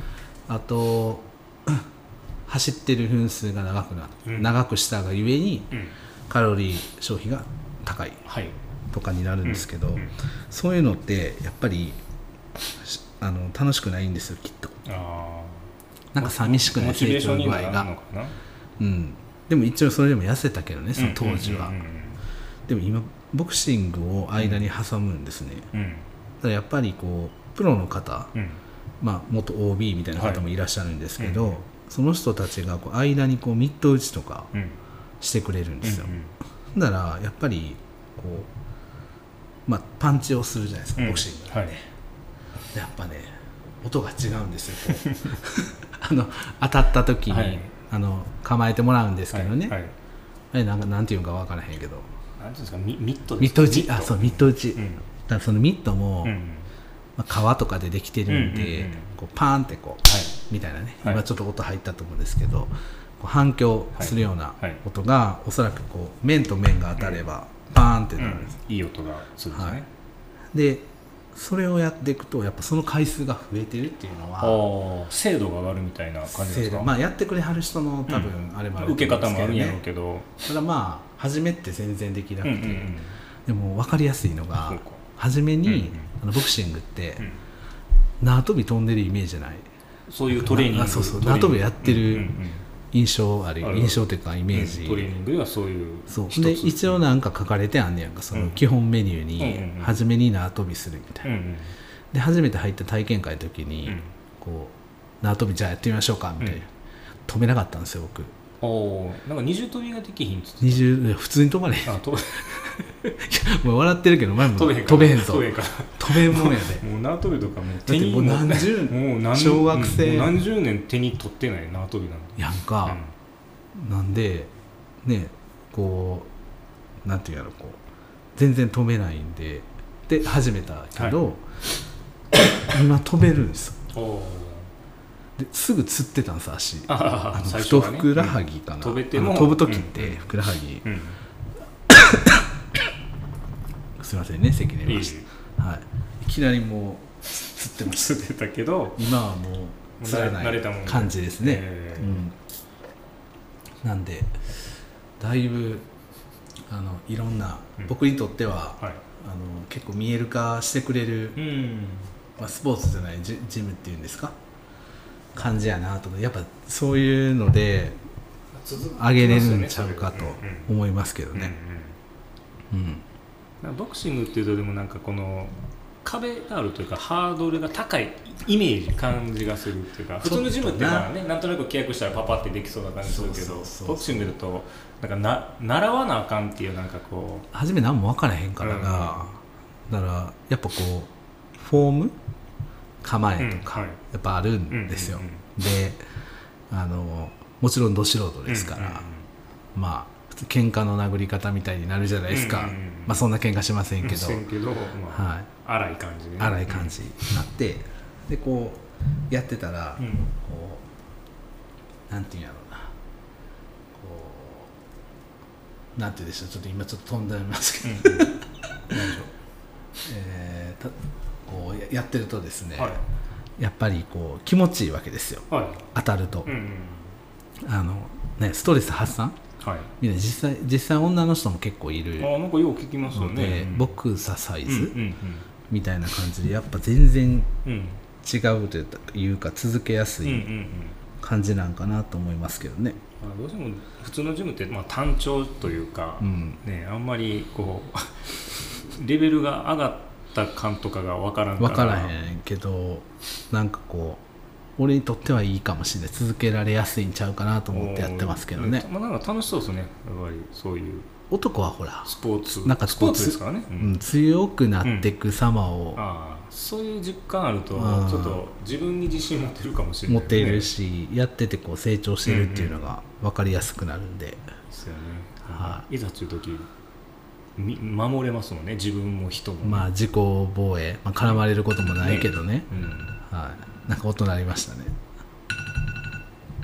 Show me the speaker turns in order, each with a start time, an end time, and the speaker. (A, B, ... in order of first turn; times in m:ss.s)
0:00.5-0:01.8 A
0:02.5-0:05.7 A
0:04.2-0:04.5 B
0:06.3-0:08.2 A
0:08.2-0:08.5 B
0:08.9-0:12.0 A
0:09.4-0:10.1 B
0:12.8-0:14.8 A
0:14.8-0:15.7 B
0:16.1-0:17.9 A
0:16.2-0:18.3 B
0:18.8-0:21.8 A
0:21.0-0:22.2 B
0:22.7-0:25.7 A
0:24.4-0:24.6 B
0:25.7-0:26.0 B
0:26.4-0:28.3 A
0:28.3-0:28.6 B
0:29.0-0:34.5 A
0:30.2-0:30.4 B
0:31.2-0:31.6 B
0:35.2-0:36.2 A
0:35.8-0:36.3 B
0:36.7-0:38.5 A
0:39.7-0:41.8 A
0:41.0-0:41.7 B
0:42.7-0:43.3 A
0:43.8-0:49.8 A
0:47.3-0:47.7 B
0:49.3-0:49.9 B
0:50.5-0:52.1 A
0:52.4-0:55.0 B
0:53.4-0:56.4 A
0:56.2-0:56.7 B
0:57.2-1:08.6 A
0:58.3-0:59.1 B
1:00.0-1:00.3 B
1:03.9-1:04.8 B
1:08.2-1:09.9 B
1:09.5-1:09.8 A
1:10.5-1:14.6 A
1:14.4-1:16.9 B
1:16.2-1:19.8 A
1:18.1-1:20.3 B
1:20.4-1:22.9 A
1:22.4-1:23.1 B
1:23.4-1:27.3 A
1:24.6-1:25.0 B
1:25.6-1:26.1 B
1:28.2-1:29.6 A
1:30.1-1:32.6 B
1:30.3-1:32.4 A
1:32.9-1:35.1 A
1:33.6-1:37.0 B
1:36.1-1:41.3 A
1:38.3-1:38.6 B
1:39.4-1:40.0 B
1:41.2-1:41.7 B
1:42.1-1:46.7 A
1:43.8-1:44.1 B
1:47.3-1:48.3 A
1:48.6-1:50.9 B
1:50.6-1:56.8 A
1:51.8-1:52.6 B
1:54.4-2:03.1 B
1:57.8-2:00.4 A
2:02.4-2:03.0 A
2:03.7-2:04.5 A
2:05.0-2:06.3 A
2:07.0-2:07.8 A
2:08.4-2:11.5 A
2:11.0-2:11.2 B
2:12.7-2:13.8 A
2:13.9-2:14.7 B
2:15.4-2:20.8 A
2:16.9-2:20.3 B
2:20.8-2:21.2 B
2:21.9-2:22.4 A
2:24.0-2:28.3 A
2:24.8-2:25.3 B
2:28.0-2:29.0 B
2:28.9-2:32.3 A
2:30.0-2:32.2 B
2:33.8-2:34.4 A
2:35.2-2:35.9 A
2:36.7-2:41.4 A
2:41.4-2:42.1 B
2:42.4-2:44.3 A
2:45.3-2:48.0 A
2:48.6-2:50.7 B
2:48.8-2:51.5 A
2:51.3-2:52.0 B
2:52.7-2:53.0 A
2:53.6-3:07.5 B
3:00.2-3:01.1 A
3:03.0-3:04.4 A
3:07.5-3:12.1 A
3:08.6-3:09.2 B
3:13.0-3:16.0 A
3:13.4-3:14.0 B
3:14.7-3:15.4 B
3:16.7-3:19.1 A
3:18.5-3:19.3 B
3:19.7-3:24.4 A
3:22.3-3:23.2 B
3:24.0-3:27.0 B
3:25.1-3:25.5 A
3:26.4-3:30.8 A
3:30.0-3:30.3 B
3:32.1-3:32.9 A
3:33.9-3:34.7 A
3:36.0-3:39.3 A
3:37.8-3:38.4 B
3:38.9-3:39.2 B
3:40.0-3:40.9 A
3:41.4-3:43.0 A
3:43.6-3:46.5 A
3:45.5-3:45.8 B
3:46.4-3:47.1 B
3:47.6-3:49.4 A
3:49.6-3:49.9 B
3:50.0-3:52.3 A
3:52.2-3:53.9 B
3:53.1-3:54.9 A
3:54.6-3:55.4 B
3:55.7-3:57.5 A
3:57.6-3:58.0 B
3:58.2-4:00.5 A
4:00.2-4:01.0 B
4:01.2-4:03.0 A
4:03.2-4:12.2 B
4:06.2-4:06.6 A
4:11.6-4:14.2 A
4:14.8-4:18.9 A
4:17.7-4:21.1 B
4:21.3-4:26.0 A
4:22.0-4:23.9 B
4:24.8-4:25.1 B
4:25.9-4:30.7 B
4:27.7-4:28.4 A
4:30.1-4:34.4 A
4:32.2-4:32.8 B
4:34.7-4:36.7 B
4:35.5-4:35.8 A
4:37.6-4:39.9 B
4:39.6-4:42.7 A
4:42.0-4:43.1 B
4:43.2-4:45.0 A